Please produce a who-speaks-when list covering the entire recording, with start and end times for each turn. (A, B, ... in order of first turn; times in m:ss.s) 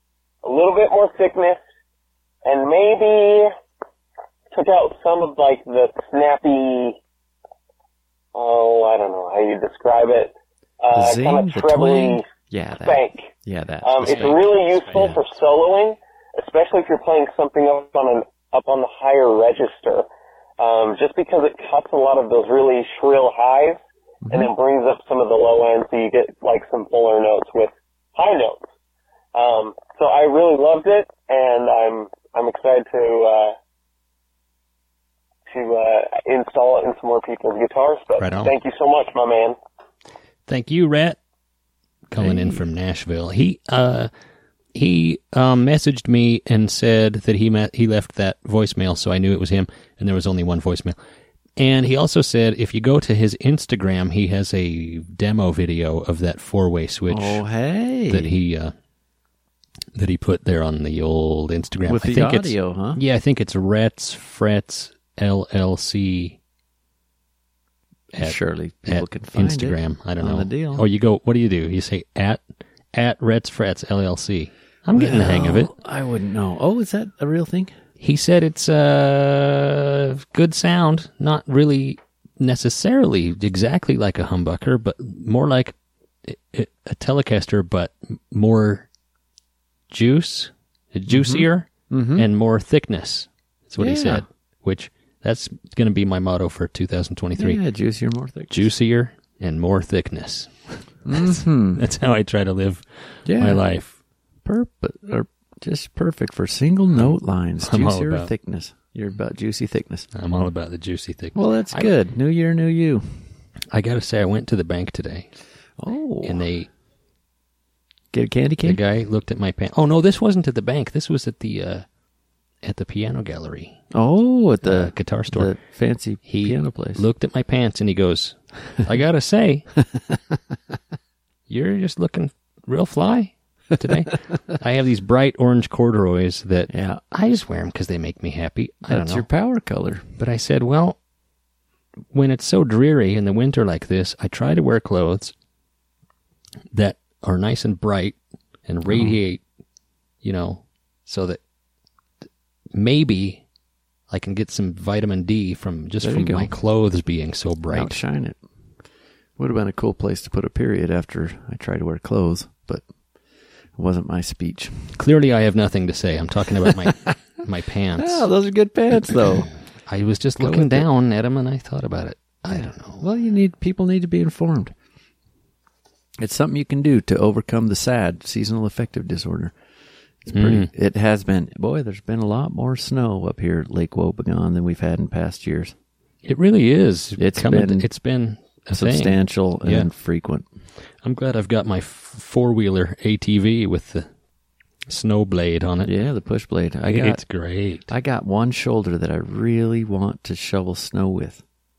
0:00.4-0:01.6 A
0:02.4-0:03.5 A
0:04.5-0:07.0 A
0:08.3-0:12.2 A
0:10.9-0:15.2 B
0:12.8-0:13.3 A
0:13.8-0:20.0 A
0:14.1-0:14.5 C
0:20.6-0:28.6 A
0:24.2-0:24.5 B
0:29.3-0:33.5 A
0:35.5-0:39.6 A
0:38.2-0:38.5 C
0:40.5-0:41.2 C
0:42.1-0:44.1 C
0:42.2-0:42.6 B
0:44.7-0:51.0 C
0:51.6-0:57.4 C
0:57.1-0:58.3 B
0:58.1-0:58.7 C
0:59.9-1:06.4 C
1:01.8-1:03.0 B
1:08.1-1:15.7 C
1:08.2-1:10.8 B
1:14.9-1:17.7 B
1:18.0-1:25.7 C
1:26.2-1:28.9 C
1:29.9-1:37.6 C
1:31.1-1:32.3 B
1:33.8-1:34.2 B
1:37.4-1:38.7 B
1:38.5-1:43.9 C
1:41.0-1:41.8 B
1:43.2-1:43.6 B
1:44.4-1:50.1 B
1:47.0-1:48.3 C
1:50.1-1:51.9 C
1:51.3-1:53.0 B
1:53.7-1:55.3 C
1:55.8-1:56.4 B
1:56.2-1:56.7 C
1:58.1-1:58.8 B
1:58.6-2:01.8 C
2:02.6-2:03.8 C
2:03.9-2:07.0 B
2:04.6-2:05.6 C
2:06.2-2:09.7 C
2:11.5-2:19.2 C
2:16.7-2:17.0 B
2:18.9-2:20.1 B
2:20.2-2:21.0 C
2:22.1-2:25.3 C
2:26.7-2:29.4 C
2:28.9-2:29.2 B
2:30.2-2:31.4 C
2:32.7-2:33.4 C
2:34.1-2:38.0 C
2:36.0-2:36.5 B
2:37.7-2:38.4 B
2:39.4-2:42.8 B
2:43.8-2:44.9 B
2:45.0-2:48.3 C
2:46.6-2:47.0 B
2:48.0-2:49.5 B
2:49.9-2:53.0 C
2:50.4-2:50.9 B
2:53.0-2:54.7 B
2:56.2-2:59.5 B
3:00.2-3:05.7 B
3:00.3-3:00.7 C
3:06.2-3:09.9 C
3:07.2-3:07.9 B
3:08.7-3:10.4 B
3:11.0-3:14.1 C
3:14.9-3:15.9 C
3:15.8-3:17.2 B
3:16.9-3:17.9 C
3:17.9-3:21.4 B